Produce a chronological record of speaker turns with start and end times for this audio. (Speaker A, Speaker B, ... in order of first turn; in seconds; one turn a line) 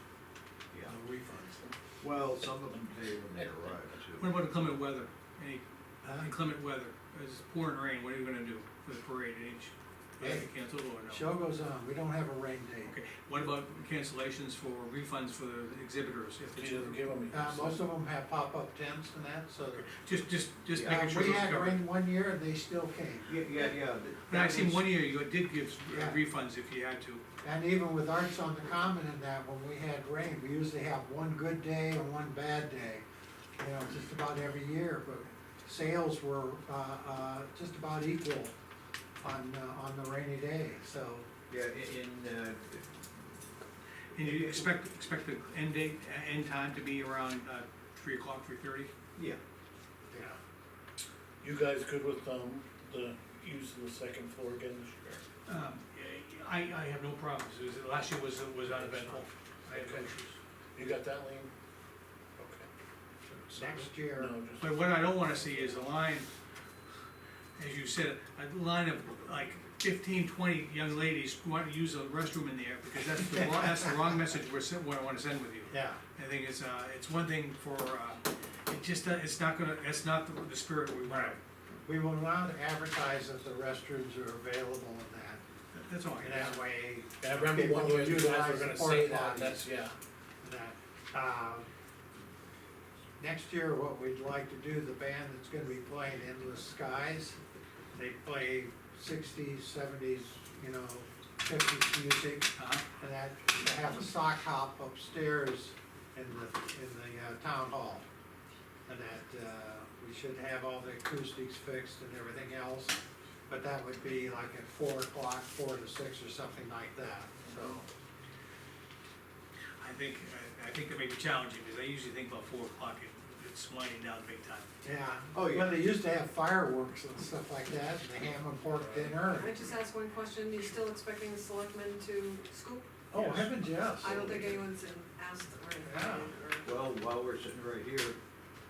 Speaker A: 0.8-1.7
Speaker B: 2.0-4.4
Speaker C: 4.2-11.3
Speaker A: 6.0-6.3
Speaker A: 10.2-10.5
Speaker A: 11.1-12.9
Speaker C: 12.9-17.6
Speaker D: 16.6-17.4
Speaker A: 17.3-19.9
Speaker C: 19.8-21.8
Speaker B: 20.7-21.2
Speaker A: 20.8-23.4
Speaker B: 23.3-24.8
Speaker C: 24.3-27.2
Speaker A: 25.9-26.2
Speaker A: 27.4-33.0
Speaker A: 33.6-38.5
Speaker A: 39.2-41.3
Speaker B: 41.5-43.4
Speaker B: 44.1-44.7
Speaker C: 44.1-48.9
Speaker A: 50.1-50.4
Speaker D: 51.4-55.2
Speaker C: 55.5-60.4
Speaker A: 58.6-59.3
Speaker D: 59.7-60.0
Speaker D: 60.8-61.5
Speaker D: 62.4-62.7
Speaker D: 63.4-65.2
Speaker A: 63.5-64.3
Speaker C: 64.6-66.3
Speaker C: 67.6-81.4
Speaker A: 73.4-73.9
Speaker A: 75.7-76.0
Speaker A: 81.0-85.4
Speaker C: 85.7-86.6
Speaker A: 86.2-89.7
Speaker D: 87.2-90.0
Speaker A: 90.4-91.7
Speaker A: 93.2-97.4
Speaker A: 98.0-108.1
Speaker C: 102.6-102.8
Speaker A: 108.9-113.0
Speaker A: 113.5-117.9
Speaker C: 119.8-124.7
Speaker A: 124.8-129.6
Speaker B: 125.3-125.7
Speaker E: 129.3-133.0
Speaker A: 133.1-134.2
Speaker C: 133.1-133.5
Speaker E: 134.0-136.8
Speaker B: 134.0-134.6
Speaker A: 135.9-136.3
Speaker B: 136.7-138.2